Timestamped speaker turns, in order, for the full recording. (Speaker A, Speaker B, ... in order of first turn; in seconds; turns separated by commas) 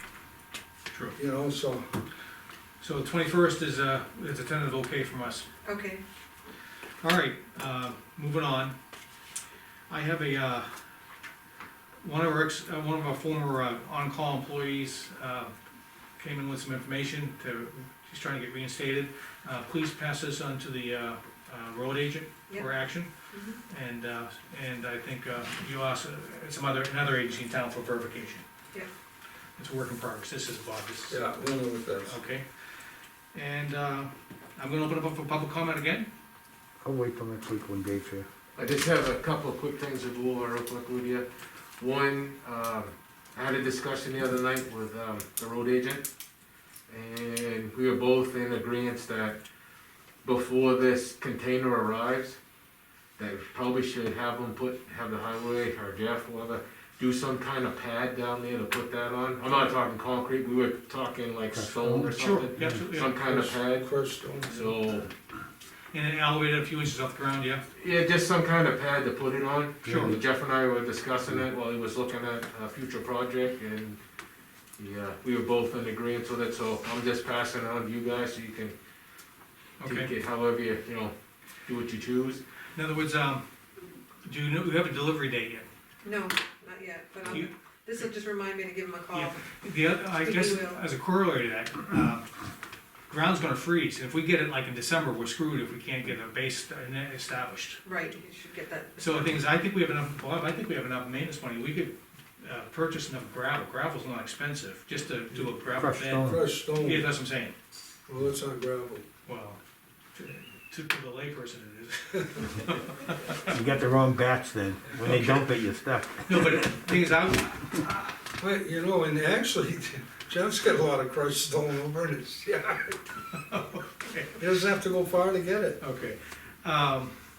Speaker A: 0.9-1.1, Speaker B: 1.1-1.9, Speaker A: 2.8-5.5, Speaker C: 5.6-6.0, Speaker A: 7.0-8.7, Speaker A: 9.9-10.7, Speaker A: 12.0-15.5, Speaker A: 16.2-23.1, Speaker C: 23.3-23.6, Speaker A: 23.7-28.4, Speaker A: 29.6-31.2, Speaker B: 31.1-32.2, Speaker A: 32.0-32.5, Speaker A: 33.3-36.1, Speaker D: 36.8-38.3, Speaker E: 38.5-41.2, Speaker E: 41.8-46.1, Speaker E: 46.9-49.4, Speaker E: 50.2-52.4, Speaker E: 53.2-63.9, Speaker D: 61.5-62.8, Speaker A: 62.5-63.1, Speaker B: 63.2-64.7, Speaker E: 64.5-65.1, Speaker A: 65.9-67.6, Speaker E: 67.7-74.0, Speaker A: 69.8-70.2, Speaker D: 69.8-70.2, Speaker E: 74.8-78.7, Speaker A: 79.8-80.1, Speaker E: 79.8-81.1, Speaker E: 81.7-82.4, Speaker A: 82.7-83.4, Speaker A: 84.2-85.7, Speaker C: 86.0-89.4, Speaker A: 87.2-88.1, Speaker A: 89.1-92.3, Speaker C: 90.1-90.8, Speaker A: 93.1-97.8, Speaker C: 97.8-99.2, Speaker A: 99.0-107.5, Speaker D: 105.7-106.5, Speaker B: 106.2-107.1, Speaker B: 108.1-109.0, Speaker A: 109.2-109.6, Speaker A: 110.1-113.5, Speaker D: 113.5-116.7, Speaker A: 115.0-115.4, Speaker A: 116.2-118.0, Speaker B: 118.3-122.9, Speaker A: 123.5-124.3, Speaker B: 124.3-125.8, Speaker A: 125.8-127.1